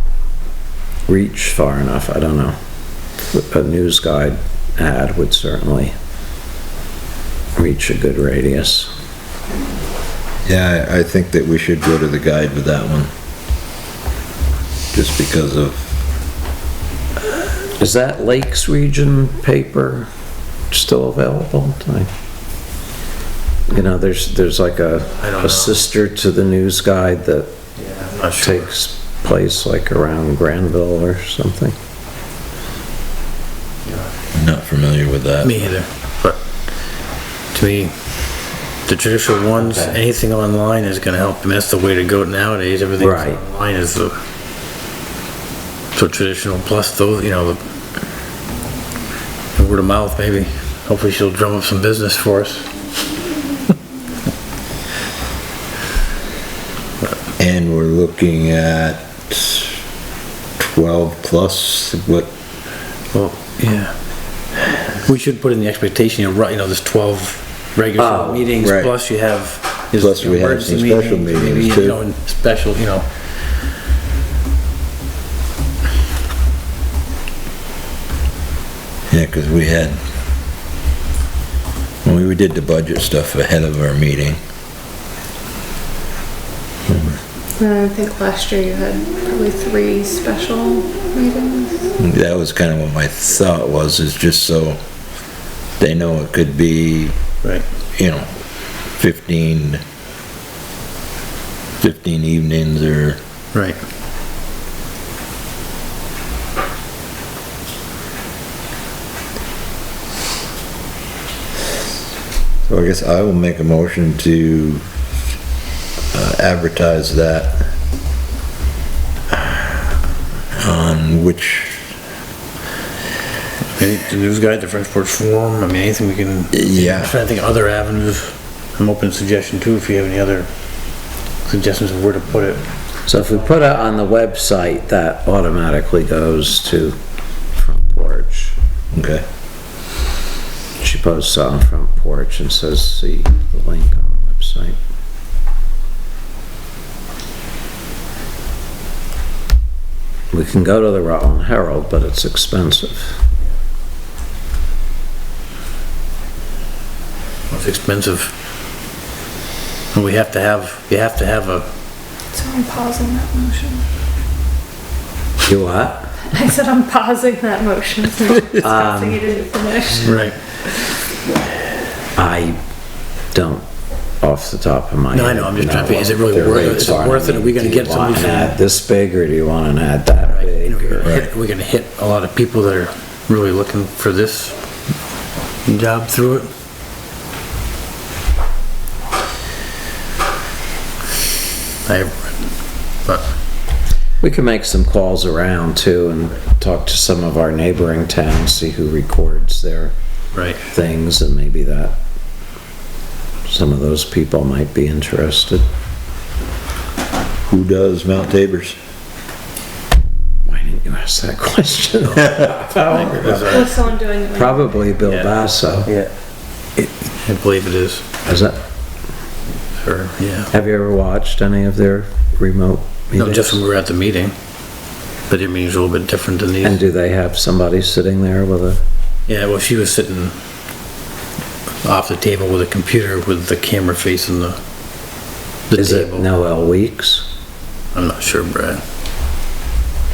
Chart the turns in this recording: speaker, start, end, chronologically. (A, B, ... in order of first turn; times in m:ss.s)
0:01.1-0:02.6 A
0:03.3-0:05.9 A
0:07.6-0:08.9 A
0:10.4-0:13.1 B
0:14.9-0:16.0 B
0:17.8-0:20.1 A
0:20.7-0:22.1 A
0:23.7-0:27.5 A
0:25.2-0:25.8 C
0:27.8-0:28.7 C
0:28.4-0:31.8 A
0:33.8-0:34.1 C
0:34.3-0:35.6 B
0:35.4-0:36.4 C
0:37.5-0:44.2 C
0:39.6-0:40.0 A
0:43.0-0:43.4 A
0:45.9-0:47.6 C
0:49.6-0:52.8 C
0:57.4-0:59.8 B
1:00.6-1:02.3 B
1:03.1-1:04.0 C
1:05.0-1:13.3 C
1:08.0-1:08.5 A
1:08.6-1:08.9 B
1:10.0-1:12.0 B
1:19.1-1:20.0 B
1:22.0-1:24.4 B
1:26.9-1:27.2 B
1:27.6-1:31.9 D
1:32.0-1:34.8 B
1:35.8-1:37.2 B
1:38.0-1:38.3 B
1:38.9-1:39.8 B
1:41.8-1:43.2 B
1:43.5-1:43.8 C
1:52.7-1:54.9 B
1:56.1-1:57.8 B
2:00.6-2:01.9 B
2:03.6-2:12.7 C
2:06.5-2:07.1 B
2:13.1-2:17.0 A
2:17.5-2:18.6 A
2:18.9-2:19.2 B
2:20.8-2:24.8 A
2:30.3-2:33.2 A
2:37.5-2:38.3 C
2:39.9-2:41.7 C
2:42.3-2:43.8 D
2:45.4-2:46.2 A
2:46.3-2:50.2 D
2:48.6-2:49.2 A
2:50.0-2:50.4 C
2:52.2-2:52.6 A
2:53.3-2:53.6 A
2:54.2-3:01.1 A
2:55.1-2:58.6 C
3:00.3-3:04.6 C
3:01.0-3:01.3 B
3:05.7-3:06.5 C
3:11.9-3:13.3 C
3:14.2-3:19.9 A
3:20.3-3:20.6 C
3:20.6-3:22.0 A
3:23.5-3:25.6 A
3:27.5-3:28.8 B
3:30.5-3:33.8 A
3:32.9-3:33.8 C
3:33.4-3:34.8 D
3:34.3-3:35.9 A
3:35.0-3:36.1 C
3:36.8-3:38.0 C
3:38.2-3:38.6 A
3:39.7-3:40.5 C
3:40.5-3:43.6 A
3:43.2-3:44.4 C
3:45.3-3:46.8 C
3:46.6-3:48.8 A
3:49.3-3:50.4 C
3:51.8-3:54.6 C
3:55.7-3:56.3 C
3:55.8-3:57.3 A
3:57.9-3:58.8 C